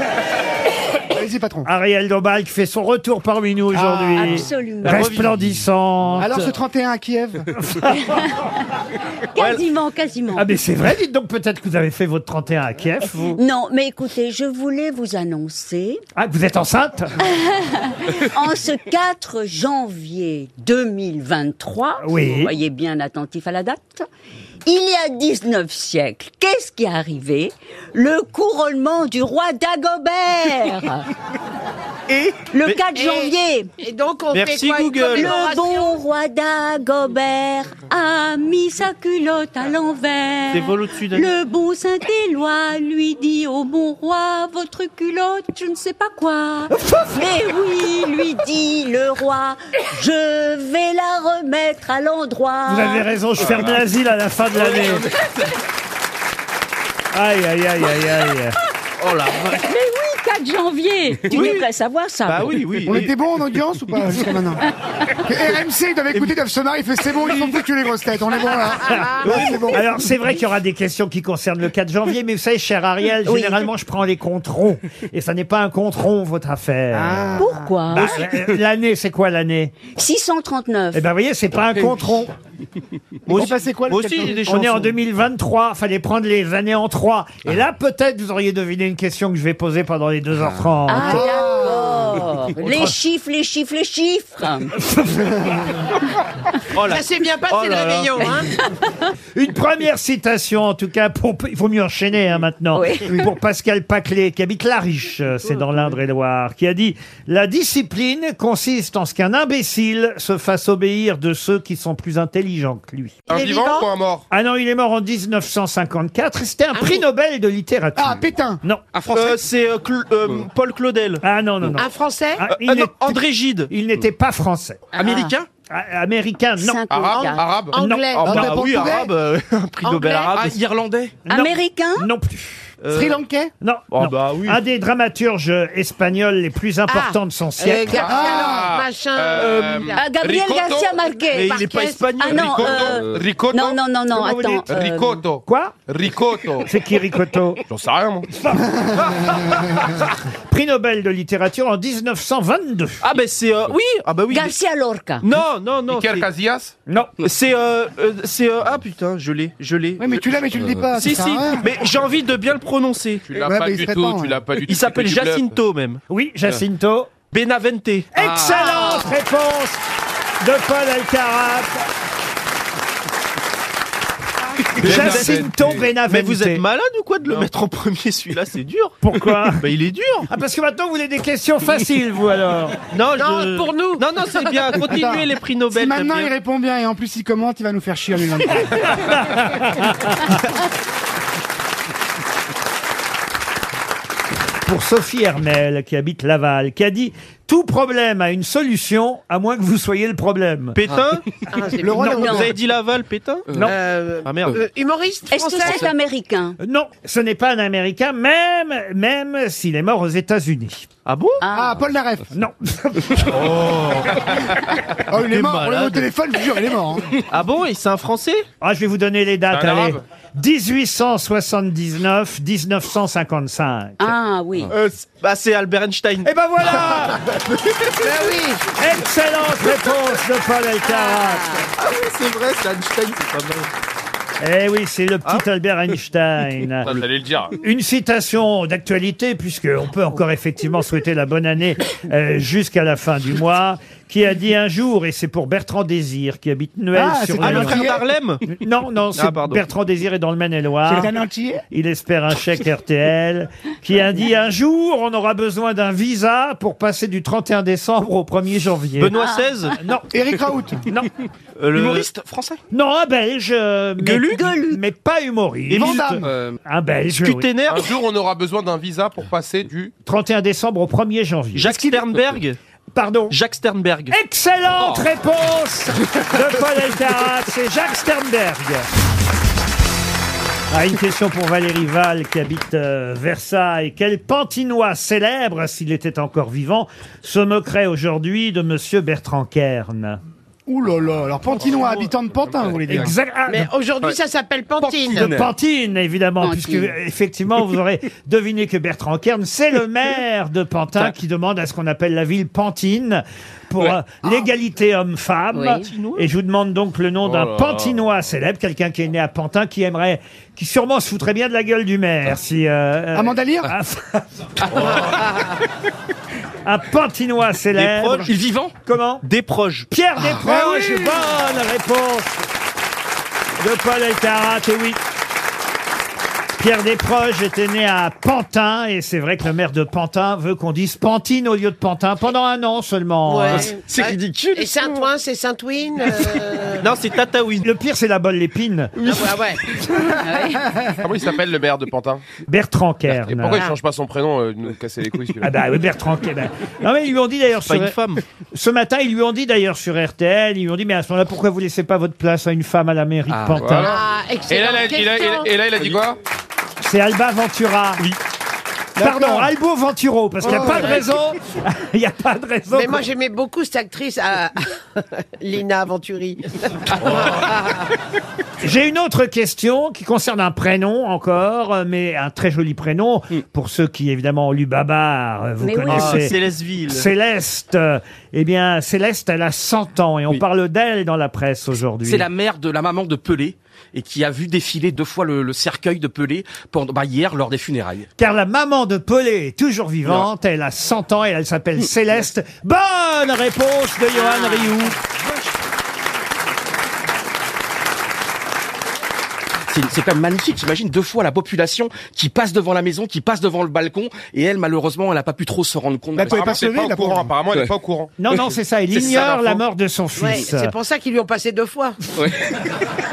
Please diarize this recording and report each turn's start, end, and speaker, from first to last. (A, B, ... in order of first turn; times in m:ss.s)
0:01.1-0:01.7 A
0:01.6-0:06.4 B
0:03.7-0:04.4 A
0:04.1-0:05.2 C
0:04.8-0:05.4 D
0:06.2-0:07.5 A
0:07.6-0:08.2 B
0:09.3-0:10.6 C
0:10.3-0:13.4 B
0:13.4-0:16.0 C
0:16.2-0:17.1 B
0:17.2-0:24.0 C
0:22.0-0:22.5 B
0:24.6-0:31.1 C
0:32.1-0:32.3 E
0:32.5-0:33.7 C
0:32.9-0:36.0 F
0:34.3-0:35.6 D
0:35.1-0:53.1 C
0:40.5-0:41.3 D
0:52.7-0:55.1 B
0:53.4-0:53.8 G
0:54.6-0:55.1 D
0:57.1-0:58.5 B
0:59.0-0:59.6 D
0:59.3-1:02.6 C
1:01.3-1:01.7 D
1:02.3-1:03.1 D
1:02.8-1:04.6 A
1:05.2-1:09.9 A
1:09.1-1:19.8 B
1:13.2-1:13.7 C
1:16.9-1:17.7 A
1:17.3-1:18.4 C
1:19.8-1:21.1 C
1:20.9-1:22.3 B
1:23.3-1:24.9 A
1:23.3-1:25.0 D
1:24.4-1:31.4 B
1:30.9-1:34.7 C
1:30.9-1:32.2 A
1:32.6-1:33.0 B
1:34.8-1:35.2 B
1:36.7-1:38.5 D
1:36.8-1:38.5 F
1:39.3-1:53.3 B
1:42.7-1:43.2 C
1:45.4-1:46.0 D
1:53.3-1:53.9 F
1:53.3-1:54.2 G
1:54.3-1:58.8 B
1:56.7-1:57.0 F
1:58.0-1:58.6 A
1:58.9-1:59.4 E
1:59.1-2:01.2 D
2:01.2-2:06.8 B
2:01.8-2:02.4 F
2:02.5-2:03.7 D
2:05.0-2:05.5 E
2:05.0-2:05.3 C
2:06.6-2:07.6 C
2:06.9-2:07.7 G
2:07.1-2:08.4 F
2:07.7-2:08.6 B
2:08.2-2:10.6 D
2:08.2-2:09.1 A
2:09.8-2:10.4 F
2:10.3-2:11.2 E
2:11.3-2:12.7 B
2:11.3-2:12.1 C
2:12.8-2:13.2 D
2:12.9-2:13.5 A
2:13.6-2:18.1 B
2:13.9-2:14.6 D
2:16.9-2:20.0 F
2:17.9-2:21.0 G
2:18.0-2:18.7 A
2:19.9-2:25.3 C
2:21.3-2:23.0 D
2:21.5-2:22.1 F
2:22.2-2:23.8 G
2:24.1-2:24.7 B
2:24.7-2:26.7 G
2:25.4-2:25.8 B
2:26.7-2:27.6 B
2:27.6-2:28.4 G
2:30.5-2:33.0 B
2:33.0-2:34.6 D
2:34.3-2:35.3 C
2:35.2-2:36.2 D
2:35.9-2:36.8 G
2:36.9-2:37.1 B
2:37.2-2:40.2 D
2:40.0-2:41.7 A
2:40.9-2:43.2 D
2:43.3-2:45.5 G
2:43.3-2:44.4 A
2:44.6-2:46.0 D
2:46.1-2:47.1 B
2:47.3-2:48.1 D
2:48.1-2:49.8 B
2:48.4-2:49.2 F
2:50.4-2:51.8 B
2:54.7-2:55.5 D
2:54.8-2:55.9 G
2:54.8-2:56.6 B
2:56.0-3:00.3 D
2:59.0-2:59.6 B
3:00.3-3:02.8 B
3:02.9-3:06.3 D
3:03.2-3:04.7 F
3:04.8-3:08.7 A
3:09.0-3:10.4 B
3:14.6-3:20.8 B
3:20.7-3:21.2 D
3:21.5-3:22.3 F
3:21.8-3:22.4 A
3:22.0-3:22.5 B
3:22.2-3:22.5 C
3:22.2-3:24.6 D
3:23.6-3:25.9 F
3:25.3-3:26.6 C
3:26.6-3:30.9 B
3:31.0-3:31.4 D
3:31.4-3:31.8 C
3:31.5-3:32.3 A
3:32.3-3:33.4 B
3:33.2-3:34.5 D
3:35.1-3:37.1 A
3:35.1-3:36.1 D
3:37.3-3:38.4 D
3:38.6-3:44.1 B
3:39.5-3:40.0 G
3:44.0-3:44.7 C
3:44.7-3:46.9 D
3:46.2-3:47.2 B
3:48.0-3:48.7 F
3:48.7-3:51.5 B
3:50.8-3:51.7 C
3:51.8-3:53.7 D
3:54.4-3:56.9 B
3:56.8-3:57.6 G
3:57.6-4:07.9 B
4:06.9-4:08.0 A
4:07.4-4:08.4 D
4:08.6-4:11.1 B
4:09.2-4:09.6 D
4:10.9-4:11.6 A
4:11.7-4:19.1 B
4:19.0-4:19.8 D
4:19.1-4:19.4 C
4:19.7-4:20.1 B
4:20.1-4:20.8 A
4:21.6-4:22.1 D
4:21.7-4:22.6 E
4:22.7-4:27.6 B
4:24.0-4:24.4 D
4:24.3-4:24.8 C
4:25.7-4:26.1 D
4:25.7-4:26.2 A
4:26.2-4:26.5 G
4:27.1-4:27.9 D
4:27.7-4:29.9 G
4:30.0-4:31.9 B
4:31.5-4:32.6 D
4:32.9-4:33.4 B
4:33.3-4:34.2 D
4:34.1-4:38.9 B
4:34.8-4:35.0 D
4:40.7-4:50.2 B
4:50.7-4:53.2 A
4:51.6-4:52.8 D
4:52.9-4:53.7 B
4:53.5-4:55.4 F
4:54.8-4:55.5 E
4:55.2-5:14.8 B
4:56.4-4:57.0 C
5:05.5-5:05.9 C
5:05.6-5:06.3 D
5:07.2-5:08.1 G
5:13.1-5:13.7 A
5:16.6-5:18.3 B
5:17.7-5:18.3 D
5:18.3-5:18.7 E
5:18.8-5:19.2 B
5:19.2-5:19.9 D
5:19.9-5:22.3 B
5:20.4-5:21.3 A
5:23.6-5:25.0 B
5:26.6-5:33.7 B
5:33.2-5:36.8 F
5:33.6-5:34.6 D
5:33.9-5:34.6 E
5:36.8-5:37.7 D
5:37.6-5:39.1 B
5:39.1-5:39.8 D
5:39.1-5:39.6 F
5:40.0-5:40.7 C
5:41.0-5:42.2 G
5:42.5-5:43.7 B
5:43.1-5:45.6 G
5:45.4-5:47.9 B
5:47.6-5:48.2 D
5:48.5-5:54.0 B
5:53.3-5:53.6 E
5:53.6-5:56.2 G
5:53.8-5:55.6 F
5:56.8-5:58.0 B
5:59.0-5:59.5 A
5:59.0-6:03.1 B
6:00.4-6:00.9 A
6:00.4-6:01.0 F
6:02.7-6:04.7 F
6:05.4-6:07.9 F
6:08.6-6:16.4 B
6:15.6-6:16.3 C
6:15.8-6:17.1 D
6:16.9-6:22.3 B
6:22.0-6:28.1 E
6:28.2-6:34.9 B
6:34.1-6:34.9 C
6:39.7-6:46.6 E
6:46.2-6:47.3 A
6:46.2-6:48.1 G
6:48.2-6:50.7 B
6:48.9-6:49.6 E
6:50.2-6:52.0 F
6:52.2-6:52.4 E